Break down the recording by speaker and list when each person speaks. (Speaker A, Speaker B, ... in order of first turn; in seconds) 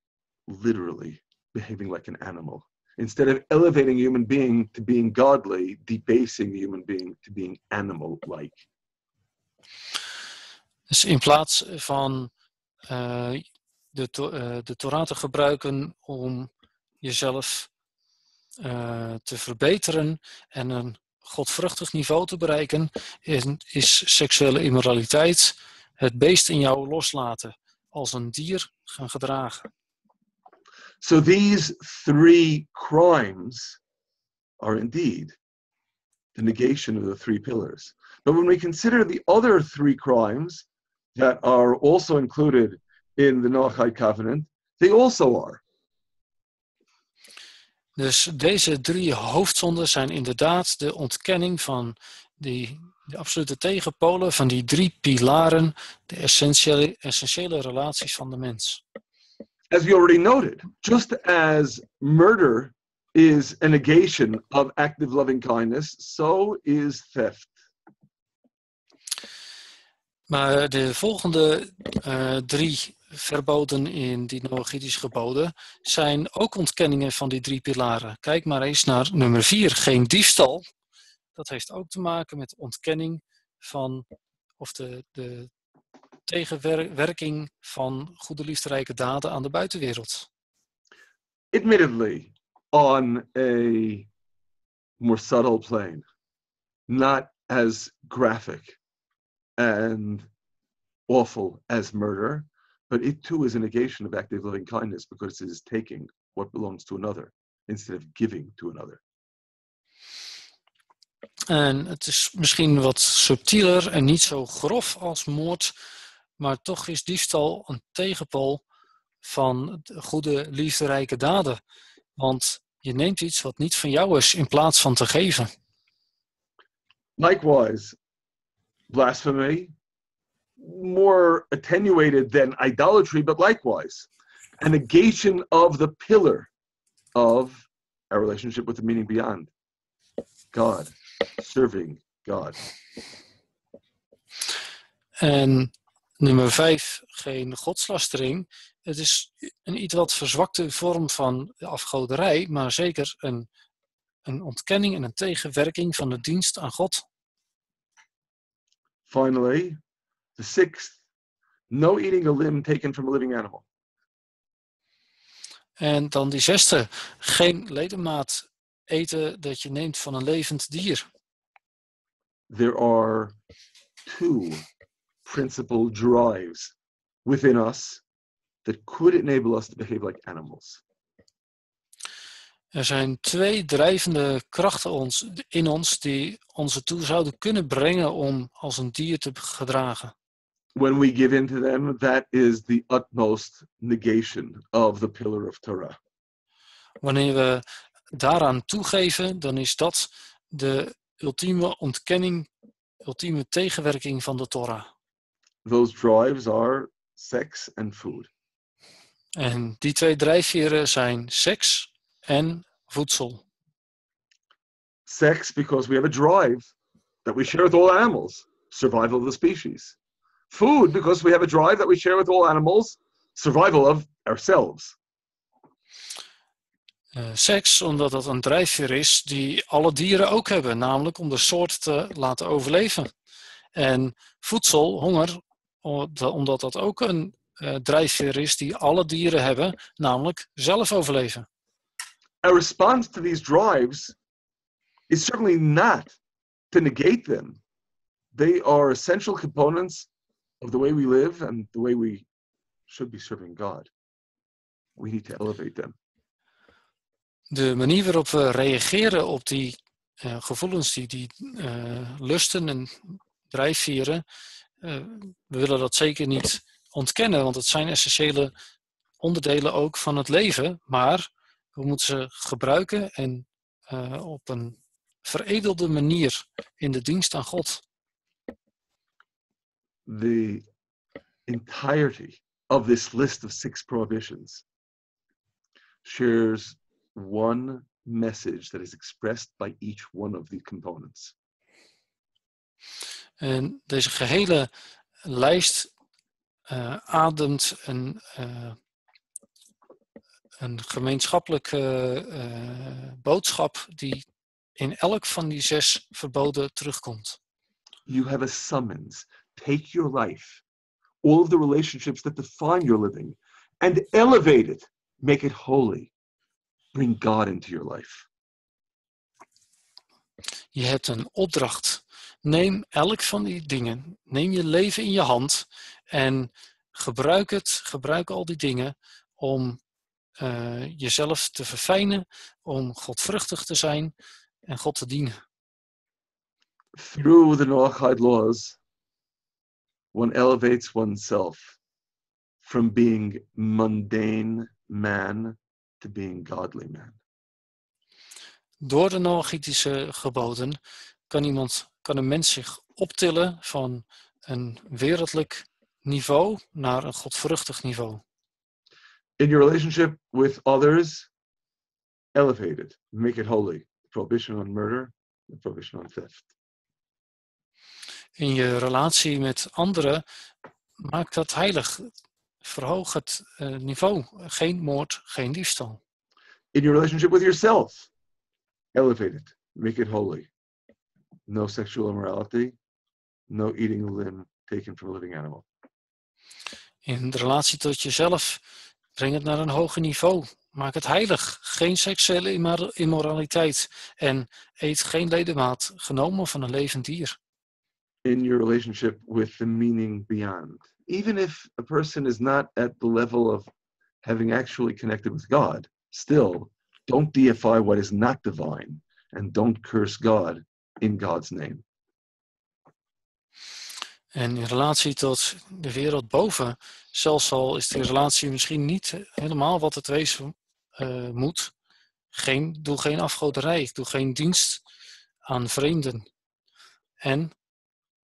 Speaker A: 0.5-8.6, 31.0-33.8, 34.6-35.4, 36.3-45.6, 59.7-67.5, 91.5-94.1, 95.0-96.0, 96.9-98.8, 99.6-100.3, 101.1-109.0, 127.2-128.0, 128.9-129.7, 130.6-134.1, 134.6-136.5, 137.1-139.5, 140.5-142.6, 159.1-159.8, 160.4-161.0, 161.7-163.6, 172.5-173.3, 174.1-174.6, 175.3-176.7, 177.2-178.0, 178.6-180.8, 190.7-196.0, 205.6-208.3, 215.1-216.7, 217.2-219.9, 220.5-224.9, 242.4-244.1, 245.1-246.2, 246.7-247.6, 248.3-250.1, 250.6-252.3, 252.9-253.9, 255.0-255.9, 280.1-280.6, 281.5-284.6, 286.0-291.3, 308.1-310.6, 311.2-316.1, 316.9-318.3, 336.9-338.8, 340.1-341.8, 342.6-347.2, 359.4-361.3, 362.3-366.5, 376.7-378.1, 378.9-380.5, 381.5-382.8, 383.5-385.6, 398.2-403.7, 404.2-411.8
Speaker B: 10.9-12.3, 12.9-16.5, 17.0-17.7, 18.6-29.7, 48.0-58.8, 70.3-80.6, 81.3-84.0, 84.6-85.5, 86.3-90.3, 111.5-115.7, 116.4-118.6, 119.2-121.6, 122.2-125.5, 145.2-153.5, 154.2-157.1, 165.8-171.1, 182.7-190.1, 197.0-202.5, 203.0-204.9, 209.3-213.4, 227.1-233.1, 233.7-241.4, 257.5-264.2, 264.8-268.5, 269.2-277.8, 293.4-294.7, 295.2-295.9, 296.7-298.8, 300.6-304.2, 304.8-307.4, 320.7-329.8, 330.4-334.1, 334.7-335.4, 348.8-350.8, 351.3-358.2, 368.4-370.2, 371.0-372.1, 372.6-376.0, 387.1-388.6, 389.2-397.4, 414.3-421.7, 422.3-424.8, 425.4-426.2, 427.2-427.5